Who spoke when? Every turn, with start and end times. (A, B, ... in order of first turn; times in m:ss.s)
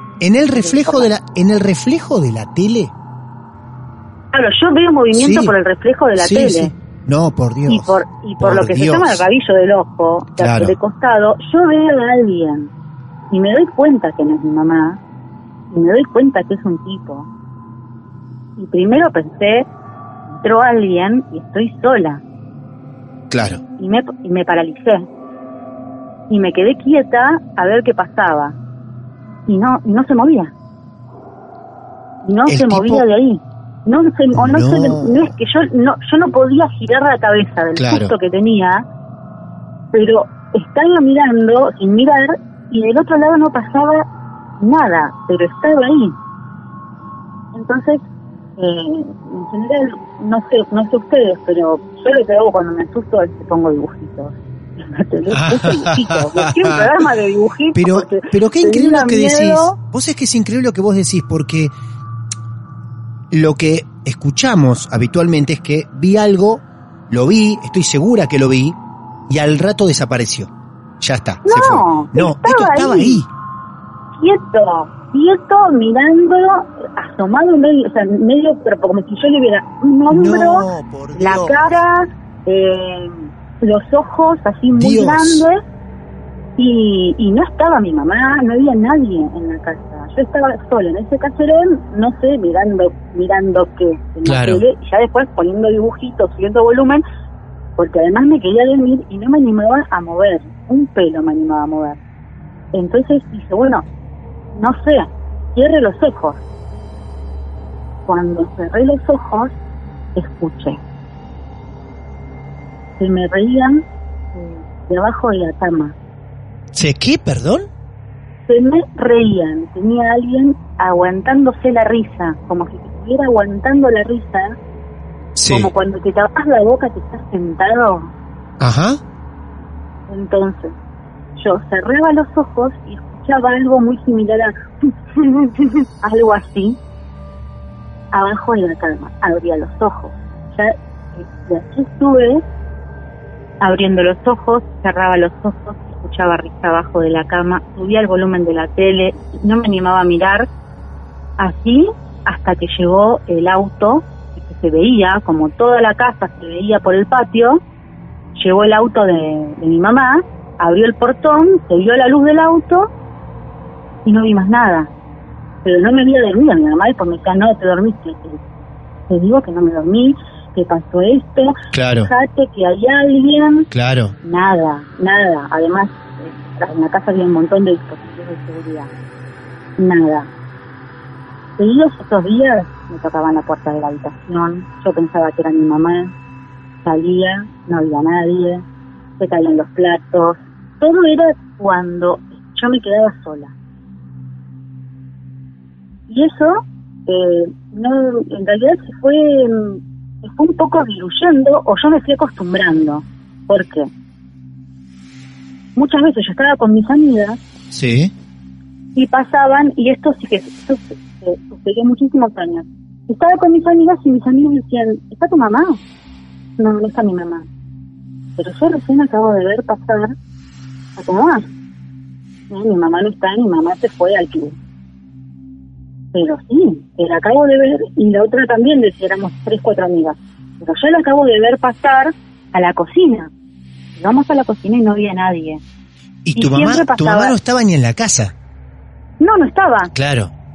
0:00.2-0:02.9 A
0:00.6-0:01.1 B
0:04.3-0:06.7 B
0:05.1-0:05.6 A
0:06.2-0:09.2 A
0:07.7-0:12.7 B
0:10.4-0:10.8 A
0:13.3-0:15.0 B
0:15.7-0:17.3 B
0:18.6-0:19.7 B
0:20.4-0:22.2 B
0:23.3-0:23.6 A
0:23.8-0:25.1 B
0:26.3-0:28.6 B
0:29.5-0:30.5 B
0:32.2-0:38.8 B
0:32.5-0:33.0 A
0:34.3-0:35.3 A
0:37.8-0:38.1 A
0:39.9-0:44.0 B
0:44.6-0:46.2 B
0:47.5-0:48.0 B
0:48.6-0:59.8 B
0:55.3-0:56.9 A
0:57.8-1:01.7 A
1:03.3-1:08.8 A
1:09.3-1:10.5 A
1:11.0-1:13.3 A
1:11.5-1:13.2 B
1:14.2-1:25.6 B
1:20.1-1:21.8 A
1:24.7-1:25.4 A
1:26.6-1:37.0 B
1:34.2-1:34.6 A
1:37.8-1:42.0 B
1:42.7-1:43.8 B
1:44.5-1:46.4 B
1:48.1-1:49.5 B
1:50.2-1:50.8 B
1:53.0-1:53.8 B
1:54.3-1:56.0 B
1:56.7-1:57.7 A
1:58.5-2:04.6 B
2:05.4-2:05.7 A
2:05.5-2:08.1 B
2:08.6-2:09.0 A
2:10.1-2:10.8 B
2:11.4-2:16.8 B
2:18.1-2:22.4 B
2:23.6-2:30.5 B
2:31.4-2:37.6 B
2:38.4-2:42.9 B
2:44.0-2:44.9 B
2:45.6-2:48.4 B
2:49.1-2:53.7 B
2:51.7-2:52.1 A
2:53.7-2:54.2 A
2:54.2-2:58.9 B
2:59.8-3:00.3 B
3:01.6-3:06.1 B
3:06.8-3:08.6 B
3:09.2-3:13.5 B
3:16.1-3:23.9 B
3:25.8-3:27.4 B
3:27.7-3:28.1 A
3:29.0-3:35.8 B
3:36.6-3:37.5 B
3:38.4-3:40.1 B
3:41.0-3:41.5 B
3:42.5-3:44.6 B
3:46.1-3:53.3 B
3:54.0-3:55.6 B
3:56.2-3:58.3 A
3:56.4-3:57.4 B
3:59.2-3:59.9 B
3:59.9-4:00.3 A